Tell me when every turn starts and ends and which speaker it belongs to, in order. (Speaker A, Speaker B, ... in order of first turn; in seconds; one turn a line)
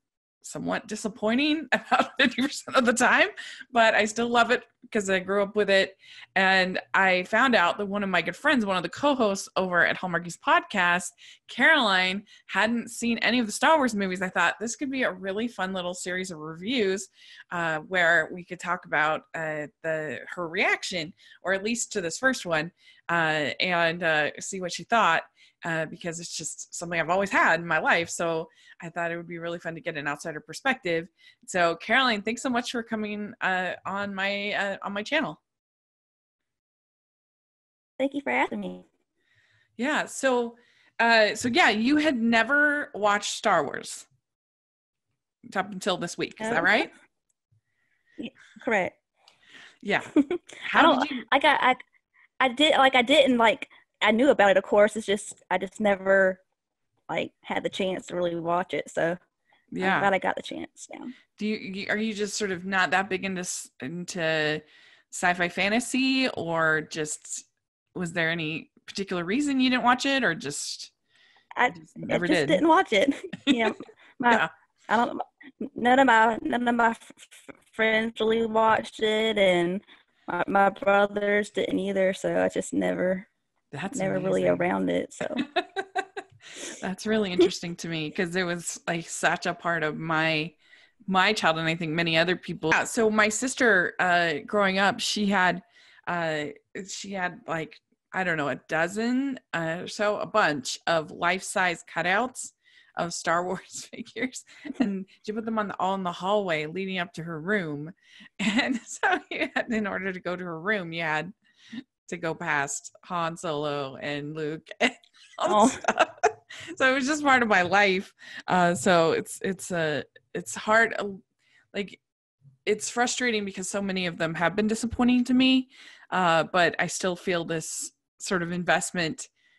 Speaker A: 0.4-35.4
Speaker B: 38.0-38.9
Speaker A: 39.8-44.1
Speaker A: 45.5-46.9
Speaker B: 46.4-46.8
Speaker B: 48.2-48.9
Speaker A: 49.8-50.1
Speaker B: 50.1-51.8
Speaker A: 50.6-51.3
Speaker B: 52.4-56.4
Speaker B: 57.1-59.2
Speaker A: 59.7-60.1
Speaker B: 59.8-61.1
Speaker A: 61.4-70.9
Speaker B: 71.6-83.3
Speaker A: 71.7-72.6
Speaker A: 83.7-84.7
Speaker B: 83.9-85.4
Speaker A: 85.4-86.1
Speaker A: 86.7-90.5
Speaker A: 91.1-111.3
Speaker A: 112.0-121.2
Speaker B: 115.5-115.8
Speaker A: 121.7-122.0
Speaker A: 122.7-129.3